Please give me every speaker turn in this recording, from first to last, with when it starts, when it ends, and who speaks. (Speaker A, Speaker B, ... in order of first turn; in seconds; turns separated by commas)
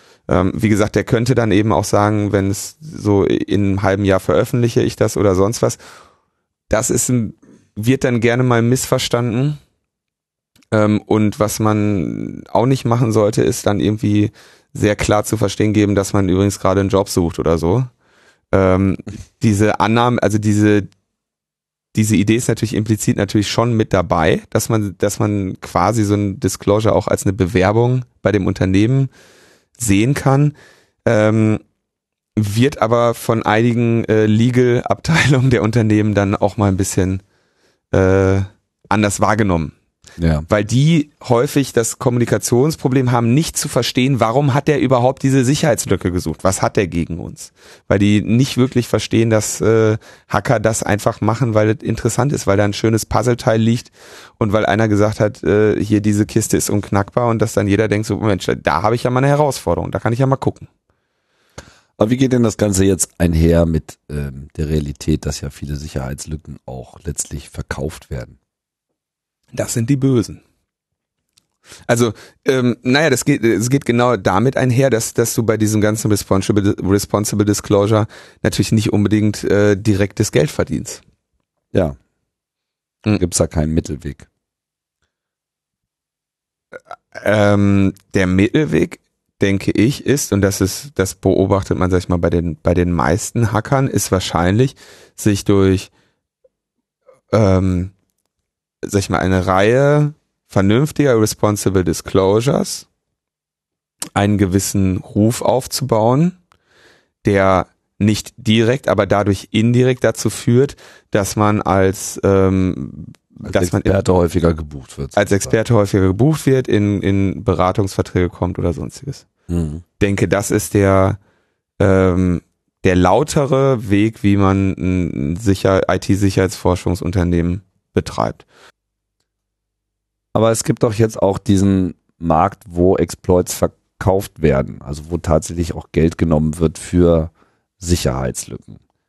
Speaker A: 0.3-5.8, Speaker A: 6.7-9.6, Speaker A: 10.7-17.9, Speaker A: 18.5-20.9, Speaker A: 21.9-29.1, Speaker A: 29.8-31.6, Speaker A: 32.4-37.2, Speaker A: 37.9-39.7, Speaker B: 40.2-40.5, Speaker A: 40.5-60.7, Speaker B: 62.0-68.4, Speaker A: 69.5-70.4, Speaker A: 71.9-81.0, Speaker B: 83.1-84.3, Speaker A: 87.1-95.9, Speaker A: 97.3-97.9, Speaker A: 98.8-102.9, Speaker A: 104.2-106.4, Speaker A: 107.2-114.0, Speaker B: 113.4-115.5, Speaker A: 115.2-119.3, Speaker B: 119.5-119.8, Speaker A: 120.0-121.2, Speaker A: 121.8-128.4, Speaker B: 130.3-138.8